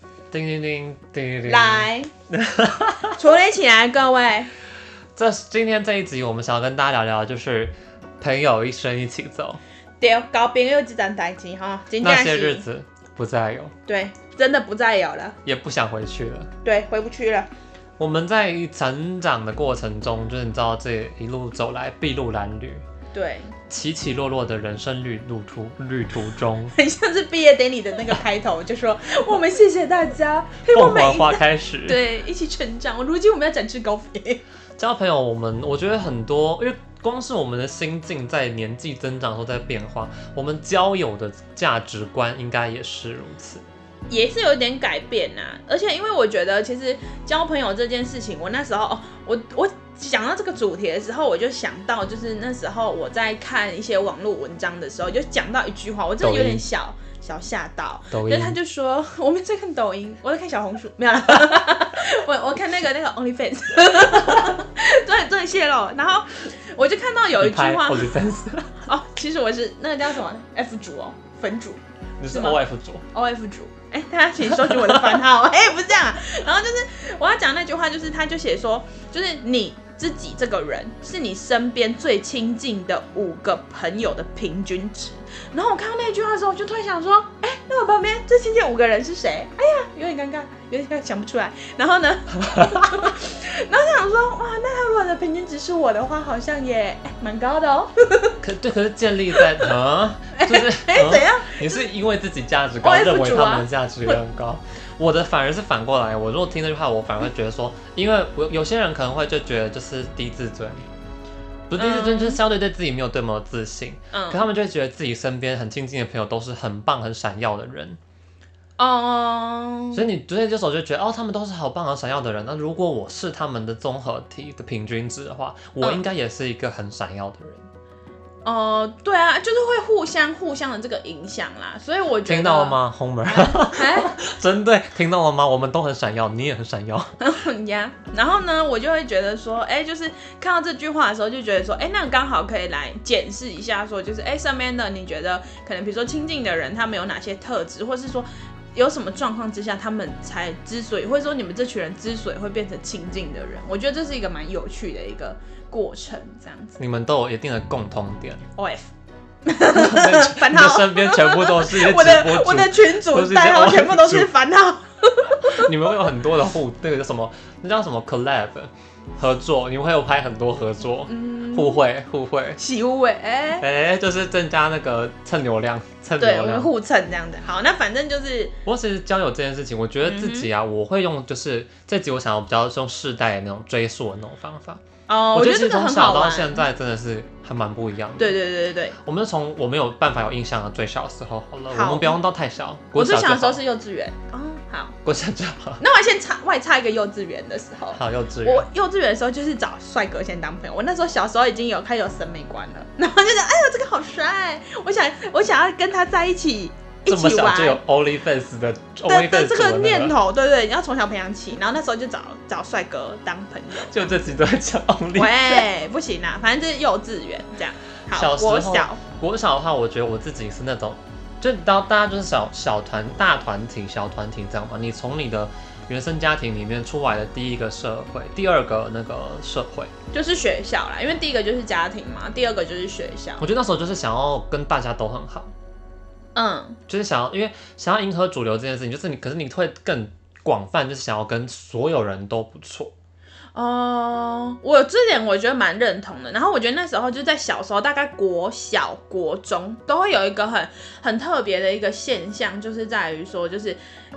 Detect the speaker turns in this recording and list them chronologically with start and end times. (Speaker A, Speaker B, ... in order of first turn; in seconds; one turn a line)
Speaker A: 0.3-3.2
Speaker B: 1.5-2.1
Speaker B: 3.1-4.5
Speaker A: 5.2-9.6
Speaker B: 10.0-12.7
Speaker A: 12.0-13.7
Speaker B: 13.9-15.4
Speaker A: 15.4-16.5
Speaker B: 16.6-17.5
Speaker A: 18.0-22.9
Speaker B: 23.1-23.5
Speaker A: 23.7-26.8
Speaker B: 26.7-34.4
Speaker A: 30.7-32.0
Speaker A: 34.8-43.6
Speaker B: 44.1-68.2
Speaker A: 56.2-56.6
Speaker A: 58.1-58.6
Speaker A: 64.2-64.6
Speaker A: 67.4-68.8
Speaker B: 68.8-98.4
Speaker A: 72.2-73.0
Speaker A: 74.4-75.2
Speaker A: 92.5-92.9
Speaker A: 98.4-110.9
Speaker B: 99.3-99.7
Speaker B: 100.3-101.8
Speaker B: 102.8-104.2
Speaker A: 111.7-118.0
Speaker B: 111.8-112.4
Speaker B: 114.1-114.5
Speaker B: 118.8-120.1
Speaker A: 119.9-127.7
Speaker B: 128.4-134.2
Speaker A: 132.3-137.1
Speaker B: 137.2-156.8
Speaker A: 156.8-158.4
Speaker B: 158.6-158.9
Speaker B: 159.5-165.7
Speaker A: 159.7-164.3
Speaker A: 165.4-172.6
Speaker B: 171.1-171.8
Speaker B: 172.6-173.7
Speaker A: 173.6-176.7
Speaker B: 176.2-178.5
Speaker A: 178.7-184.8
Speaker B: 180.0-180.5
Speaker B: 185.1-186.7
Speaker A: 185.3-188.3
Speaker B: 188.2-188.9
Speaker A: 189.0-193.6
Speaker B: 191.7-192.2
Speaker B: 192.9-194.9
Speaker A: 195.0-195.8
Speaker B: 195.8-207.8
Speaker A: 197.9-198.7
Speaker A: 207.1-210.2
Speaker B: 209.1-214.1
Speaker A: 213.7-215.7
Speaker B: 215.2-219.0
Speaker A: 218.1-229.9
Speaker B: 230.1-233.5
Speaker A: 233.4-235.5
Speaker B: 236.4-236.8
Speaker A: 236.9-242.9
Speaker B: 243.6-253.8